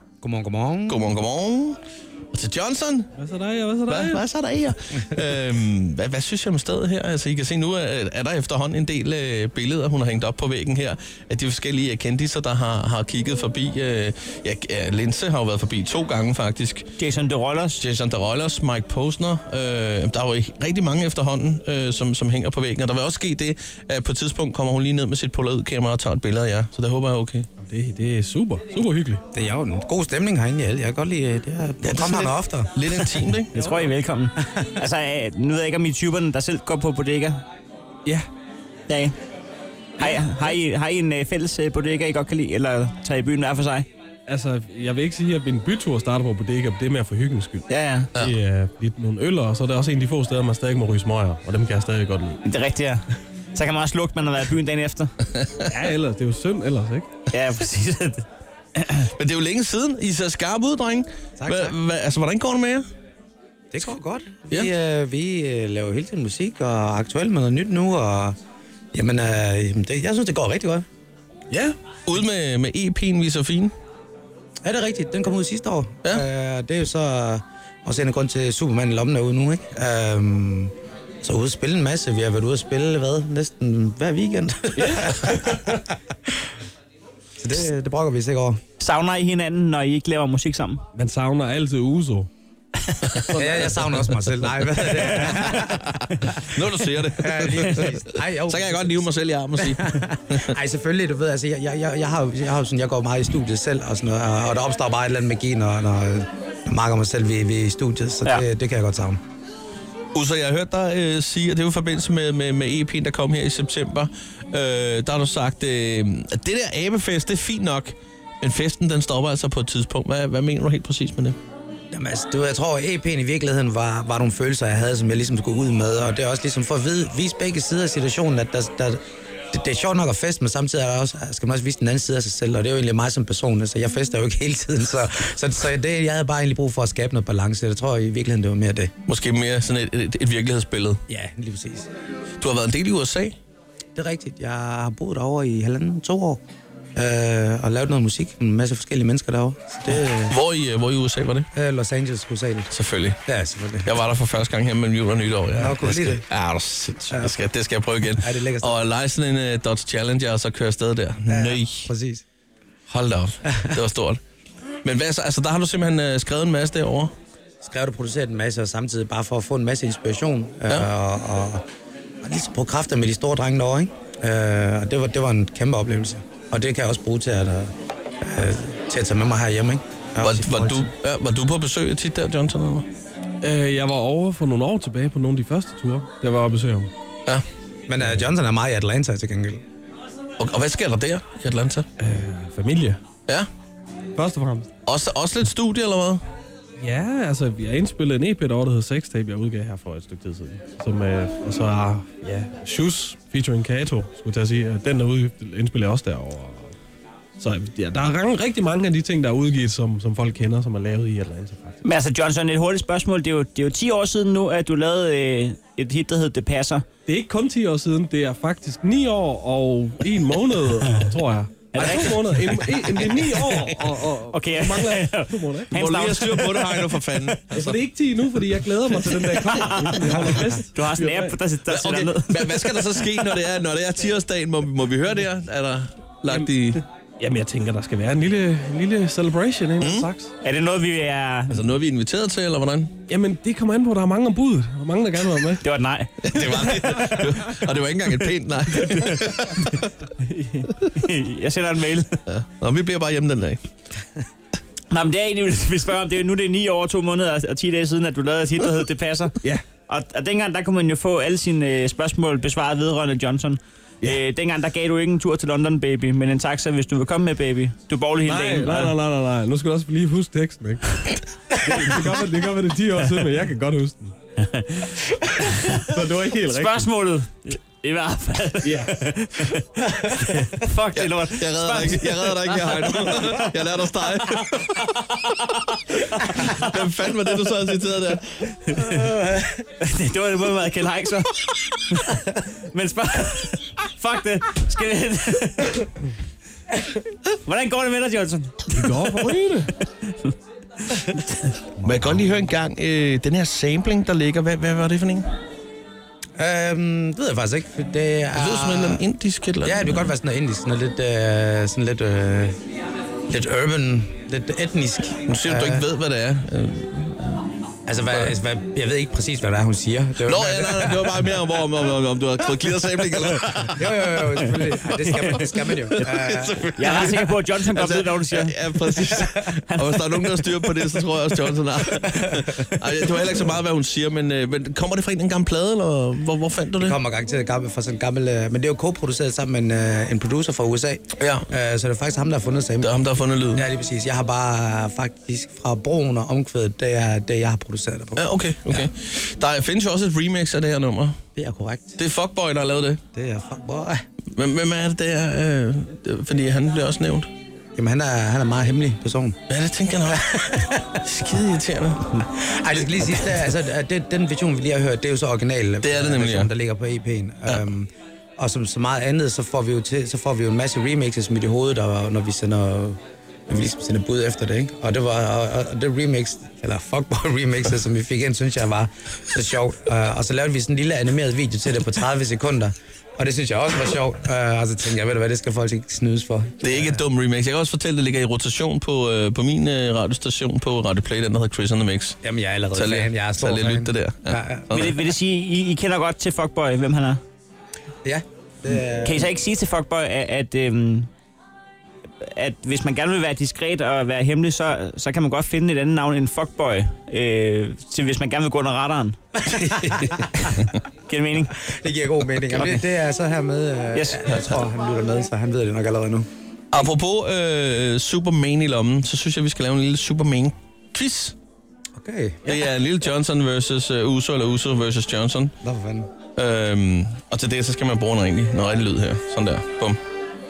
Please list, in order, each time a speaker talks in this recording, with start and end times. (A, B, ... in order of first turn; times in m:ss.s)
0:00.2-0:01.1 A
0:00.9-0:01.8 B
0:02.3-0:03.1 B
0:03.2-0:04.2 C
0:03.9-0:16.9 B
0:17.0-0:17.8 D
0:17.8-0:27.5 B
0:27.6-0:29.2 C
0:29.3-0:33.2 A
0:31.8-0:33.5 B
0:33.5-0:37.4 D
0:38.9-0:39.2 D
0:40.0-0:43.9 D
0:40.0-0:40.5 C
0:44.3-0:52.4 C
0:47.7-0:48.1 D
0:52.4-0:55.1 D
0:55.6-0:57.1 C
0:57.3-0:59.1 D
0:59.1-1:02.8 B
1:01.4-1:01.8 A
1:03.7-1:08.4 A
1:08.9-1:10.8 A
1:12.1-1:13.7 B
1:14.6-1:25.9 A
1:24.8-1:25.8 C
1:27.4-1:28.6 A
1:28.8-1:30.8 D
1:30.9-1:32.3 C
1:33.3-1:36.4 A
1:33.3-1:34.0 C
1:35.2-1:35.7 D
1:35.5-1:40.5 B
1:37.2-1:49.2 A
1:50.1-2:01.4 B
2:01.9-2:18.9 A
2:19.1-2:21.0 B
2:21.1-2:21.9 A
2:22.4-2:23.4 B
2:23.9-2:26.4 A
2:27.0-2:30.4 A
2:30.3-2:31.5 B
2:31.5-2:32.7 A
2:32.7-2:33.2 B
2:33.2-2:33.9 A
2:33.8-2:41.9 B
2:35.5-2:36.2 A
2:37.1-2:37.5 A
2:38.2-2:38.8 A
2:41.3-2:42.2 A
2:42.9-2:44.2 B
2:43.4-2:43.8 A
2:44.8-2:47.1 B
2:47.6-2:51.6 A
2:52.2-2:57.7 A
2:58.2-3:00.9 A
3:00.2-3:02.9 B
3:03.4-3:06.9 C
3:07.9-3:09.6 A
3:10.4-3:11.9 B
3:12.0-3:13.0 C
3:14.1-3:14.7 C
3:14.8-3:16.2 B
3:16.8-3:26.8 C
3:27.4-3:31.8 C
3:31.8-3:36.8 D
3:37.0-3:45.7 C
3:41.7-3:43.6 D
3:44.3-3:47.0 D
3:45.7-3:47.8 B
3:47.5-3:51.4 C
3:49.5-3:49.9 D
3:50.6-3:52.8 D
3:51.7-3:56.8 B
3:57.2-4:00.3 C
3:59.8-4:00.1 B
4:00.4-4:01.6 D
4:01.5-4:03.0 B
4:03.1-4:05.6 C
4:05.6-4:06.9 D
4:06.2-4:09.8 B
4:10.2-4:12.2 D
4:12.3-4:13.6 B
4:14.9-4:28.9 D
4:28.2-4:34.1 C
4:34.4-4:35.9 D
4:35.7-4:36.9 C
4:36.5-4:43.4 D
4:38.6-4:39.0 C
4:40.9-4:45.2 B
4:45.0-4:46.8 D
4:46.1-4:48.5 B
4:48.6-4:49.2 D
4:48.8-4:49.5 A
4:49.8-4:56.0 D
4:57.4-4:59.1 D
4:58.7-4:59.7 C
4:59.9-5:00.3 D
5:01.8-5:02.3 A
5:01.8-5:05.3 B
5:06.4-5:09.0 A
5:08.3-5:10.1 B
5:09.6-5:12.5 A
5:13.3-5:15.8 A
5:15.2-5:17.4 B
5:17.8-5:21.3 A
5:20.2-5:24.5 B
5:23.8-5:26.7 A
5:24.9-5:26.1 D
5:26.0-5:37.0 B
5:26.8-5:29.8 D
5:36.8-5:43.0 A
5:41.2-5:41.5 B
5:42.8-5:43.6 B
5:43.5-5:48.9 A
5:48.2-5:51.2 B
5:51.4-5:52.0 A
5:52.0-5:53.0 B
5:53.1-5:54.0 A
5:54.4-5:57.3 B
5:57.8-5:59.4 A
5:59.5-6:02.2 B
6:00.0-6:01.0 A
6:02.3-6:27.0 A
6:03.0-6:03.3 B
6:05.8-6:06.5 B
6:26.6-6:32.2 B
6:32.2-6:34.6 A
6:32.7-6:35.1 B
6:34.7-6:37.2 D
6:38.0-6:39.3 A
6:39.0-6:41.1 D
6:42.2-6:49.2 D
6:49.4-6:50.6 A
6:51.1-6:51.5 D
6:51.6-6:56.3 A
6:53.9-6:54.2 D
6:56.7-7:01.3 B
7:02.0-7:02.6 A
7:02.4-7:05.5 B
7:05.6-7:06.1 A
7:06.4-7:10.0 B